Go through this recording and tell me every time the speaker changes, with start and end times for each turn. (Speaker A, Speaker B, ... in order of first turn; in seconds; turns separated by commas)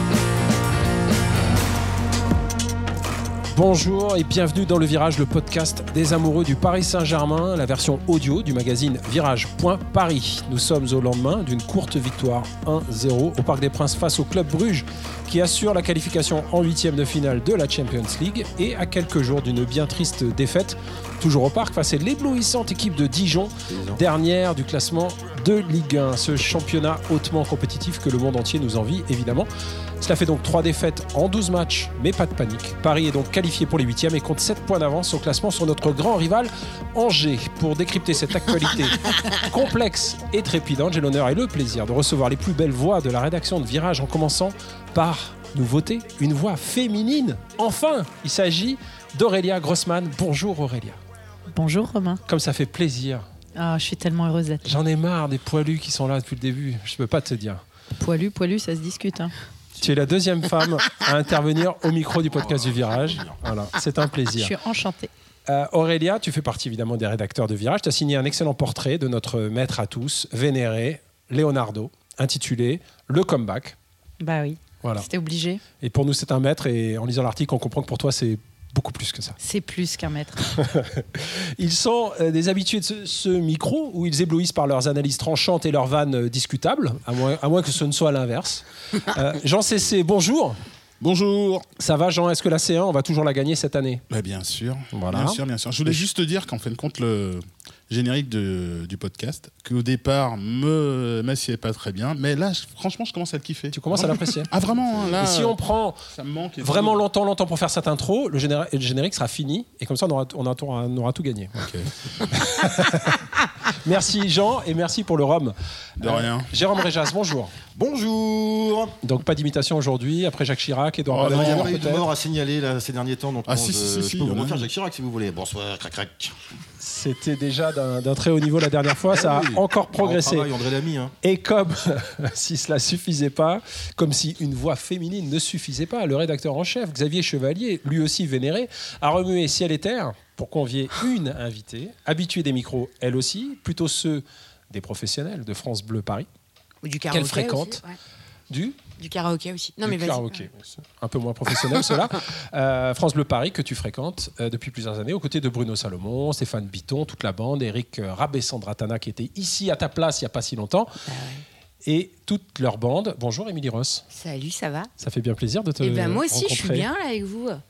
Speaker A: 3.5-29.5, Speaker B: 23.7-24.0, Speaker A: 30.0-51.0, Speaker C: 51.5-52.2, Speaker A: 52.2-53.3, Speaker C: 53.5-54.6, Speaker A: 54.6-57.6, Speaker C: 58.0-59.3, Speaker A: 59.8-64.5, Speaker B: 62.2-63.4, Speaker C: 64.3-65.1, Speaker A: 65.5-73.8, Speaker C: 74.2-75.6, Speaker A: 74.8-75.1, Speaker A: 75.8-79.4, Speaker C: 79.4-80.5, Speaker A: 80.5-90.6, Speaker D: 91.0-91.6, Speaker A: 91.8-94.0, Speaker D: 94.1-105.6, Speaker A: 94.9-96.0, Speaker A: 103.7-104.5, Speaker A: 105.2-106.0, Speaker D: 106.1-107.0, Speaker A: 106.6-117.5, Speaker D: 111.6-111.9, Speaker D: 116.0-116.5, Speaker B: 117.7-119.0, Speaker A: 119.0-122.0, Speaker D: 121.1-121.7, Speaker B: 121.2-126.3, Speaker D: 123.5-124.7, Speaker A: 126.8-130.5, Speaker B: 129.1-131.1, Speaker A: 131.2-146.3, Speaker E: 146.8-148.0, Speaker A: 147.1-147.8, Speaker A: 148.5-148.8, Speaker E: 149.0-150.5, Speaker A: 149.8-161.0, Speaker E: 161.1-161.4, Speaker A: 161.8-164.0, Speaker E: 164.1-164.9, Speaker A: 165.0-166.9, Speaker E: 165.8-167.6